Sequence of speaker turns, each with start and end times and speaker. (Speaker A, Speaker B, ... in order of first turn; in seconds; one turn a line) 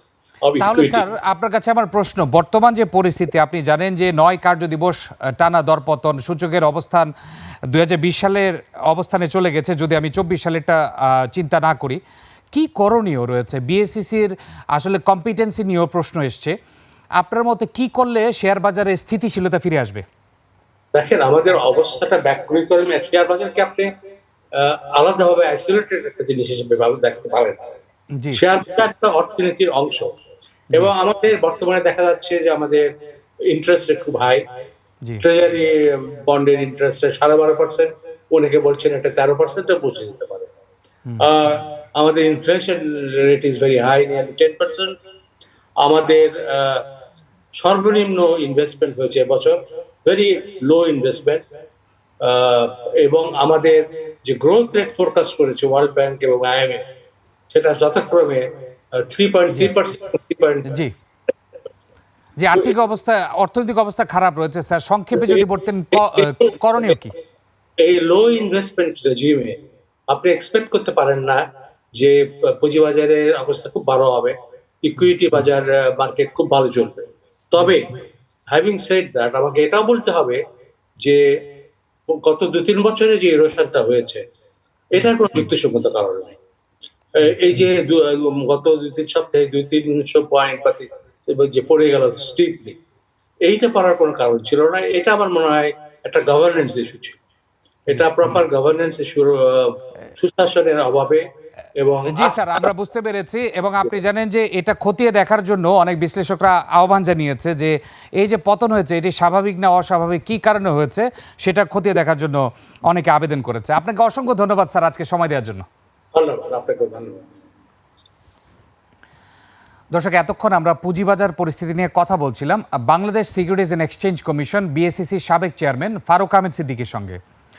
Speaker A: 0.4-1.0
Speaker B: 0.6-7.1
Speaker B: 7.7-12.0
Speaker B: 12.5-16.6
Speaker B: 17.2-20.0
Speaker A: 20.9-23.9
Speaker A: 24.6-27.7
Speaker A: 28.3-30.1
Speaker A: 30.7-32.9
Speaker A: 33.5-34.4
Speaker A: 35.2-40.5
Speaker A: 41.2-45.0
Speaker A: 45.8-46.8
Speaker A: 47.6-51.5
Speaker A: 52.2-56.8
Speaker A: 57.5-60.7
Speaker B: 60.6-60.9
Speaker B: 62.4-67.1
Speaker A: 65.1-65.5
Speaker A: 66.0-67.0
Speaker A: 67.8-69.6
Speaker A: 70.1-71.4
Speaker A: 72.0-77.9
Speaker A: 78.5-80.4
Speaker A: 82.1-84.2
Speaker A: 84.9-86.4
Speaker B: 85.0-85.4
Speaker A: 87.2-92.8
Speaker A: 93.5-97.2
Speaker A: 97.9-101.2
Speaker B: 97.9-98.4
Speaker A: 101.8-102.7
Speaker B: 102.1-115.7
Speaker A: 116.1-117.2
Speaker B: 119.9-127.2